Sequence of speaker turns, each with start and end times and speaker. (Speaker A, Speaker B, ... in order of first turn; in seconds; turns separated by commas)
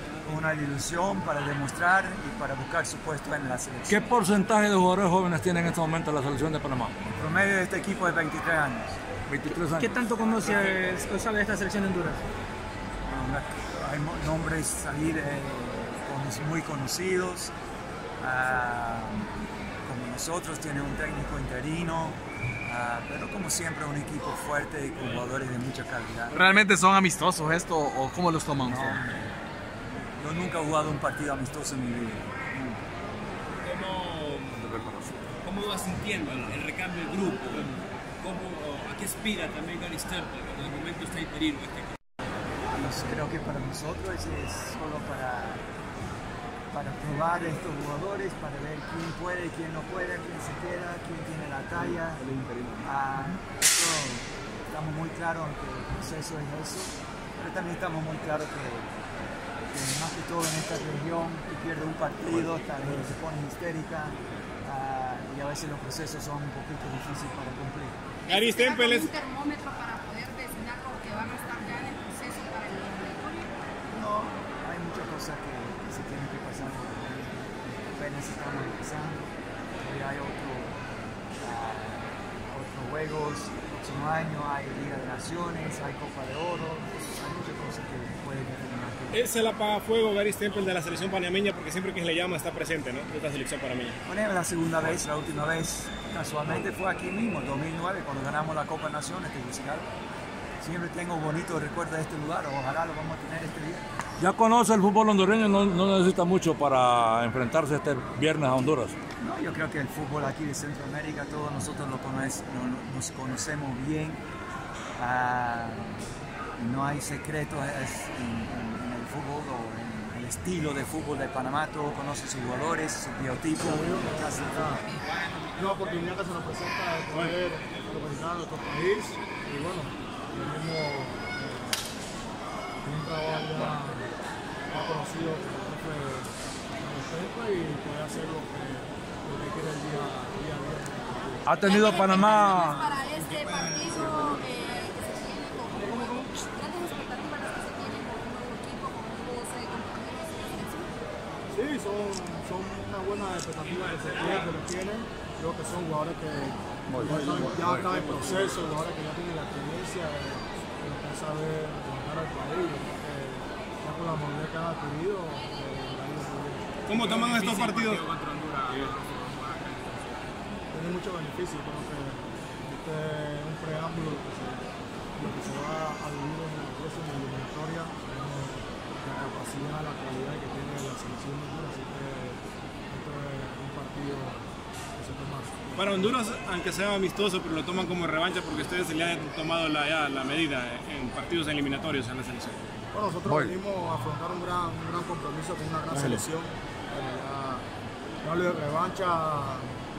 Speaker A: 0.2-4.1, Speaker B: 3.9-6.9, Speaker A: 7.2-9.0, Speaker B: 9.3-10.7, Speaker C: 9.8-12.3, Speaker A: 10.3-10.6, Speaker A: 13.1-17.5, Speaker A: 18.2-19.3, Speaker A: 19.9-26.4, Speaker D: 26.3-29.0, Speaker A: 28.6-29.3, Speaker A: 30.1-32.8, Speaker E: 33.6-41.9, Speaker A: 42.7-45.6, Speaker A: 46.7-52.2, Speaker D: 51.7-52.9, Speaker A: 52.8-59.1, Speaker A: 59.7-68.0, Speaker F: 68.3-69.1, Speaker G: 68.3-73.5, Speaker A: 73.9-80.8, Speaker A: 81.3-89.3, Speaker F: 89.1-94.0, Speaker A: 94.0-99.9, Speaker A: 100.6-103.8, Speaker B: 104.2-109.0, Speaker A: 109.2-114.2, Speaker A: 115.0-116.0, Speaker A: 116.6-124.9, Speaker H: 123.6-124.9, Speaker H: 125.5-131.8, Speaker H: 132.8-134.1, Speaker H: 134.7-141.4, Speaker B: 141.4-142.9, Speaker G: 141.6-150.9, Speaker H: 145.8-146.2, Speaker H: 151.5-166.8, Speaker F: 157.1-158.4, Speaker F: 166.9-168.0, Speaker E: 166.9-170.3, Speaker H: 170.7-186.1, Speaker F: 185.8-192.6, Speaker H: 192.9-197.7, Speaker D: 195.9-196.2, Speaker H: 198.2-199.7